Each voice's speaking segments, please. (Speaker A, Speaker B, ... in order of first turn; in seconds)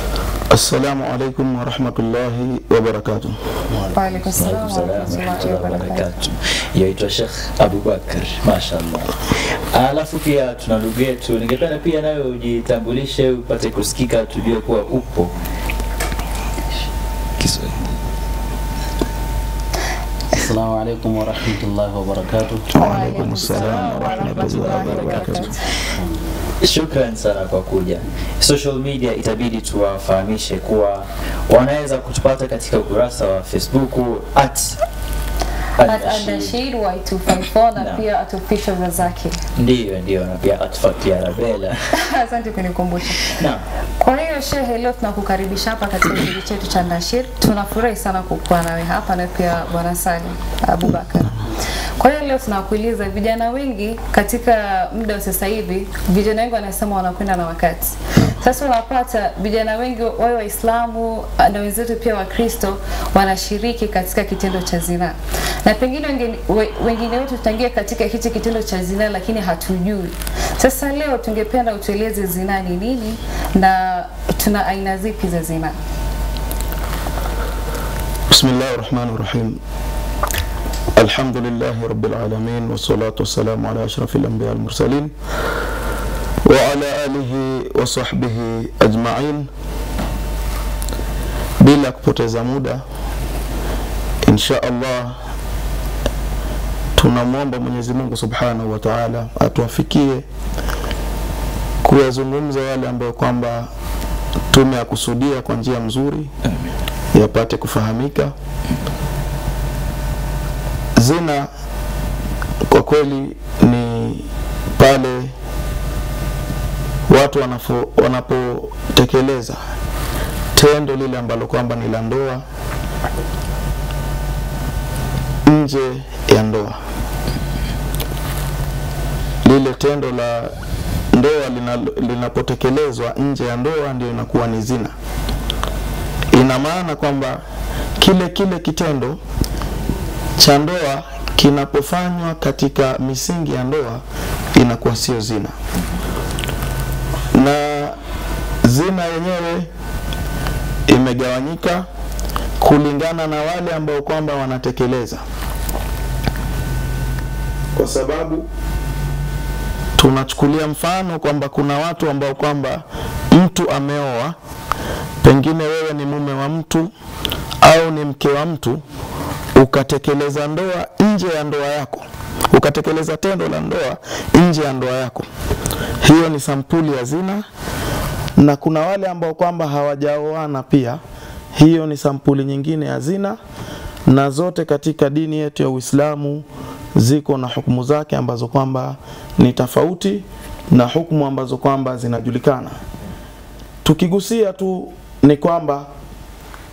Speaker A: 0.5-3.4, 22.7-25.6, 78.3-79.6, 80.9-85.2, 86.4-89.5, 91.6-92.8, 94.2-95.2, 97.0-100.3, 101.8-103.7, 104.5-106.3, 107.1-108.3, 111.0-111.5, 112.7-115.3, 117.1-119.6, 120.5-122.4, 125.4-126.8, 129.4-130.6, 131.1-134.9, 136.3-137.4, 138.0-139.2, 140.4-145.6, 147.3-148.0, 148.6-149.7, 150.9-151.9, 152.6-155.2, 157.8-158.5, 160.0-164.4, 165.2-166.9, 167.6-168.8, 169.6-175.3, 176.0-177.5, 178.4-181.0, 181.5-183.4, 184.1-192.8, 193.8-195.9
Speaker B: 3.7-5.8, 20.3-24.8, 25.9-26.5
Speaker C: 3.9-6.1, 22.8-25.7, 35.8-39.4, 41.9-43.4, 44.0-51.4, 51.9-75.8
Speaker D: 4.4-15.4, 17.4-17.9, 26.6-34.8, 35.8-36.5, 37.8-38.0, 39.6-41.8, 43.2-43.6, 106.5-106.7